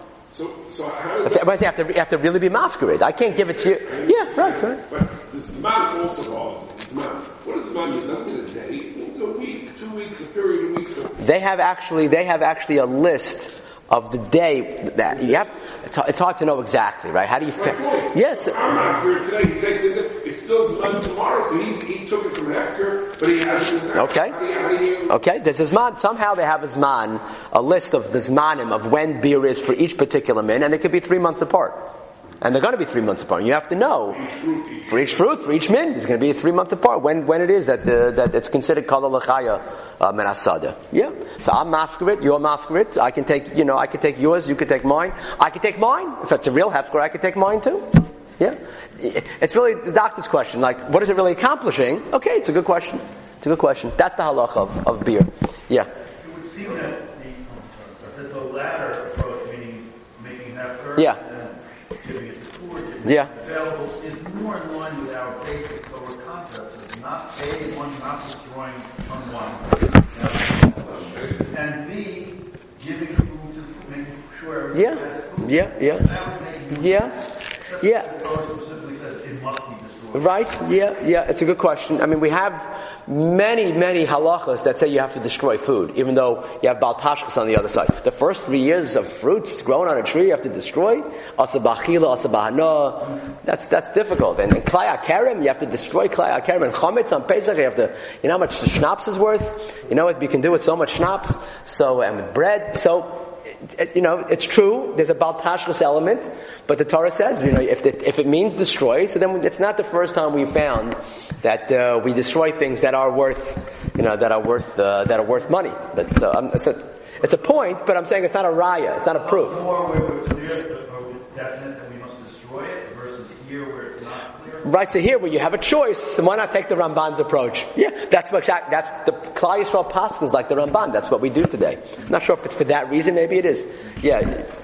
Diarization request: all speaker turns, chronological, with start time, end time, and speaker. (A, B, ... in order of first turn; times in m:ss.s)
0:00.3-0:01.6 A
0:01.2-0:04.8 B
0:03.2-0:11.2 A
0:11.2-0:18.6 B
0:15.1-0:15.5 A
0:17.6-0:25.2 A
0:23.9-0:24.4 B
0:25.1-0:31.9 B
0:32.4-0:34.2 B
0:34.1-0:35.2 A
0:34.8-0:55.9 B
0:56.2-1:20.4 C
1:03.0-1:03.3 B
1:14.7-1:16.2 B
1:16.7-1:17.2 B
1:17.8-1:18.1 B
1:20.1-1:59.6 B
1:59.2-2:04.6 C
2:04.6-2:14.5 B